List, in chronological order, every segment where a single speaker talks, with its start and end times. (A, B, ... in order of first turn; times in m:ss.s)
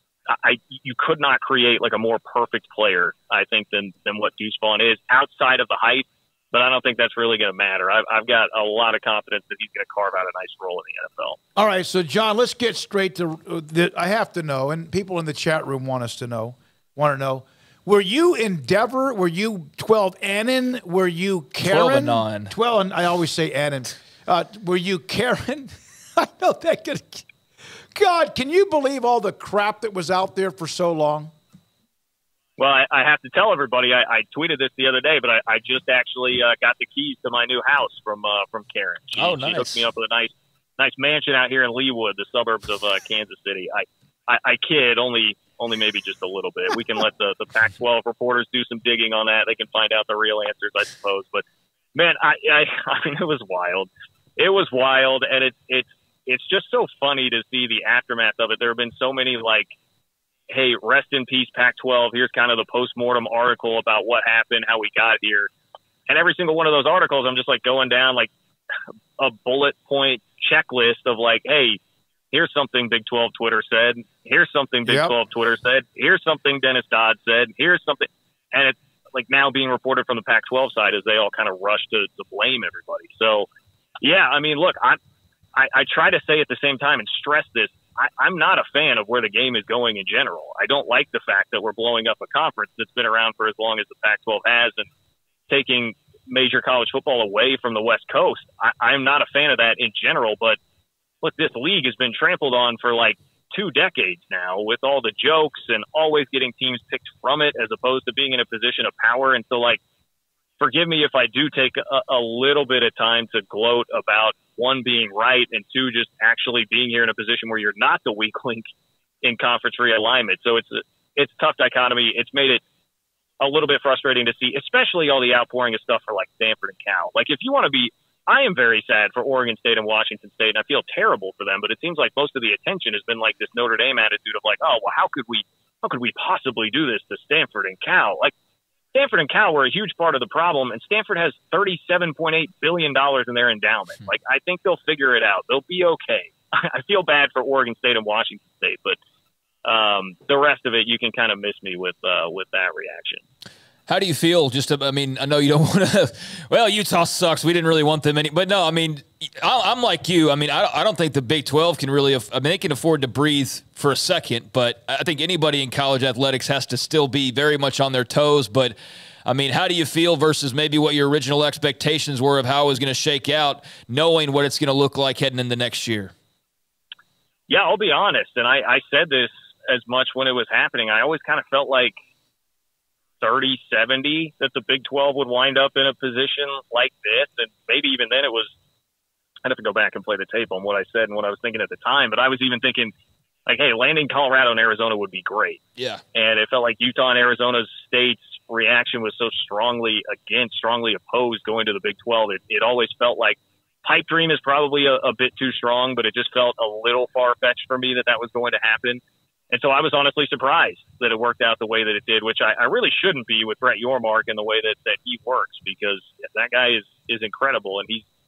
0:00.3-0:11.4 A
0:11.6-0:27.2 B
0:21.6-0:22.5 C
0:27.9-0:31.3 B
0:32.6-0:51.4 A
0:39.2-0:39.9 C
0:51.9-0:59.7 A
1:00.5-1:05.5 A
1:06.1-1:08.3 A
1:09.2-1:11.8 A
1:12.3-1:23.5 A
1:14.9-1:15.1 B
1:24.0-1:25.0 A
1:25.6-1:34.9 A
1:35.5-1:40.6 A
1:41.2-1:49.8 A
1:50.6-1:58.6 A
1:59.2-2:02.6 A
2:03.4-2:18.3 A
2:18.9-2:29.0 A
2:29.6-2:33.2 A
2:33.9-2:56.1 C
2:57.5-3:01.9 A
3:03.2-3:08.5 A
3:09.4-3:12.9 A
3:13.5-3:15.6 A
3:16.1-3:38.0 A